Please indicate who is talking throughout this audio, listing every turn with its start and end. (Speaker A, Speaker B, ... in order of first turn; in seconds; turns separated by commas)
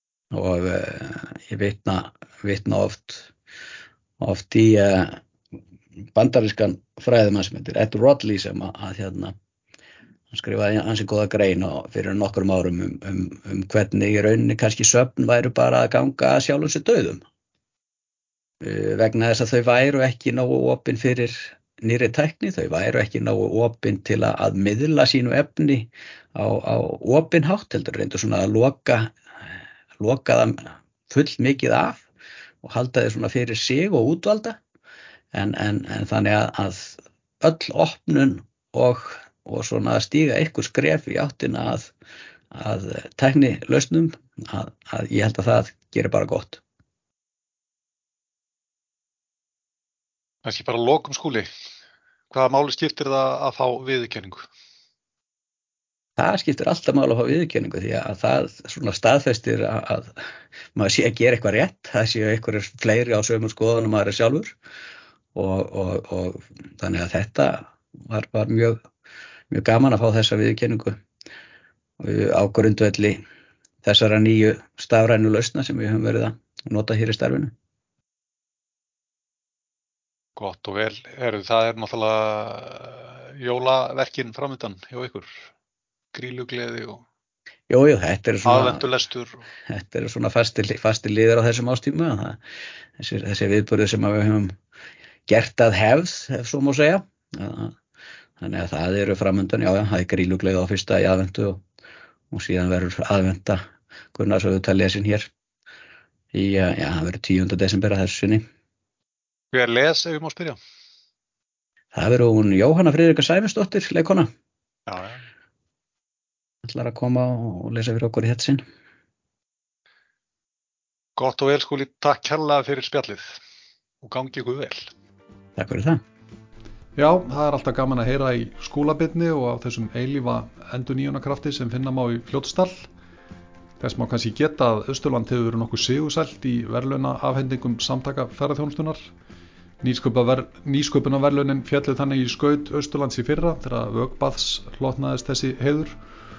Speaker A: 0.3-3.3, Speaker A: 4.2-5.2, Speaker A: 6.1-9.3, Speaker A: 10.3-17.2, Speaker A: 18.6-29.1, Speaker A: 30.0-32.0, Speaker A: 32.6-34.6, Speaker A: 35.3-41.9, Speaker A: 42.5-46.6, Speaker B: 50.4-51.5, Speaker B: 52.3-54.5, Speaker A: 56.2-60.1, Speaker A: 60.7-64.5, Speaker A: 65.3-68.8, Speaker A: 69.5-71.0, Speaker A: 72.0-73.2, Speaker A: 73.8-77.5, Speaker B: 80.4-85.5, Speaker B: 86.1-87.0, Speaker A: 87.7-88.8, Speaker B: 88.4-89.4, Speaker A: 89.7-92.4, Speaker A: 93.0-94.5, Speaker A: 95.3-97.8, Speaker A: 98.4-101.6, Speaker A: 102.3-103.6, Speaker A: 104.1-105.3, Speaker A: 106.3-108.4, Speaker B: 109.5-110.6, Speaker A: 111.9-114.3, Speaker B: 114.9-115.2, Speaker A: 116.6-118.6, Speaker B: 121.2-123.4, Speaker B: 124.0-124.9, Speaker A: 125.6-126.0, Speaker C: 127.0-132.9, Speaker C: 133.8-139.1, Speaker C: 139.8-146.0